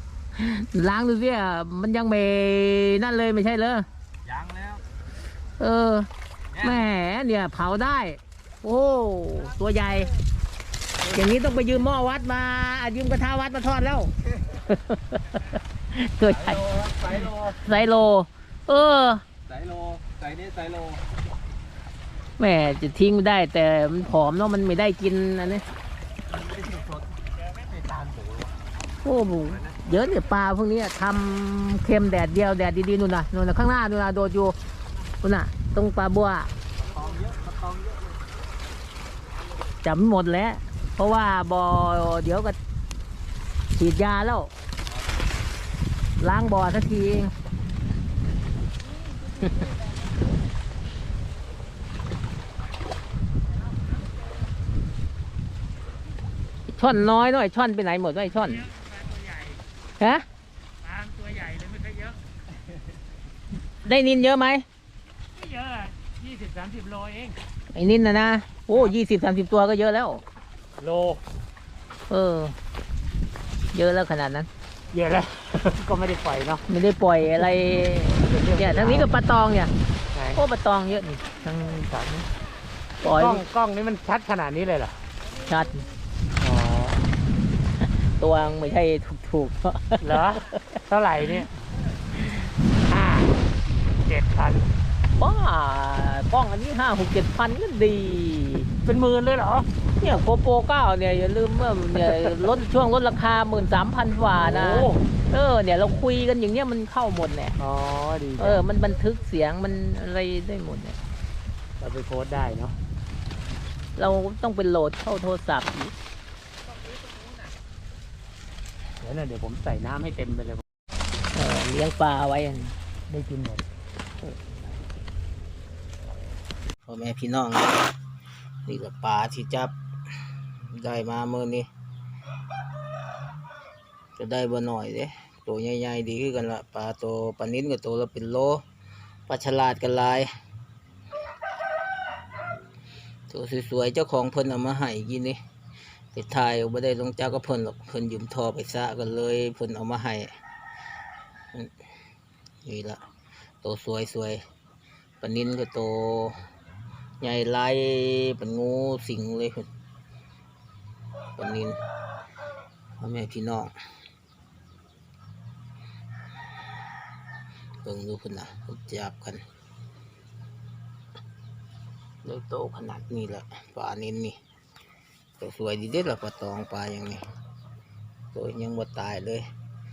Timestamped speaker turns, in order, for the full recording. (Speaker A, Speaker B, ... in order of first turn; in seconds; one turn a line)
Speaker A: 0.3-3.9
Speaker B: 4.2-4.8
Speaker A: 5.6-6.1
Speaker B: 6.5-6.9
Speaker A: 6.6-10.1
Speaker A: 11.1-14.1
Speaker A: 14.7-15.2
Speaker A: 15.9-16.6
Speaker B: 16.2-17.8
Speaker A: 17.6-19.2
Speaker B: 19.5-21.1
Speaker A: 22.4-25.6
Speaker B: 26.3-27.0
Speaker B: 27.5-28.5
Speaker A: 29.0-34.6
Speaker B: 29.5-29.8
Speaker A: 35.2-36.5
Speaker B: 36.8-38.2
Speaker A: 39.8-42.6
Speaker A: 43.8-44.5
Speaker A: 46.2-47.3
Speaker A: 56.7-58.7
Speaker C: 58.3-59.6
Speaker A: 60.0-60.2
Speaker C: 60.8-62.2
Speaker A: 63.8-64.7
Speaker C: 65.3-67.4
Speaker A: 67.7-70.2
Speaker C: 70.8-71.2
Speaker A: 72.1-72.6
Speaker A: 73.7-74.5
Speaker C: 74.9-76.6
Speaker A: 76.7-79.7
Speaker C: 78.2-79.1
Speaker C: 80.1-80.4
Speaker A: 80.3-82.3
Speaker A: 83.0-83.4
Speaker C: 83.0-85.0
Speaker A: 85.4-85.9
Speaker C: 86.4-87.0
Speaker A: 87.8-90.8
Speaker C: 90.0-91.5
Speaker C: 92.1-94.7
Speaker A: 95.2-98.7
Speaker C: 98.8-99.7
Speaker A: 100.0-107.6
Speaker C: 104.4-105.0
Speaker C: 107.6-108.6
Speaker A: 108.4-111.0
Speaker C: 111.8-112.8
Speaker A: 114.0-115.9
Speaker C: 119.0-120.6
Speaker A: 121.3-122.8
Speaker C: 123.1-123.7
Speaker A: 126.9-127.9
Speaker A: 128.7-129.7
Speaker A: 130.6-131.7
Speaker A: 134.2-138.6
Speaker A: 139.3-140.3
Speaker A: 143.3-145.4
Speaker A: 146.1-150.3
Speaker A: 152.7-153.0
Speaker A: 153.6-154.4
Speaker A: 155.2-156.4
Speaker A: 157.2-159.7
Speaker A: 161.4-161.8
Speaker A: 163.0-163.7
Speaker A: 167.8-169.4
Speaker A: 172.2-174.4
Speaker A: 175.4-177.2
Speaker A: 178.3-179.4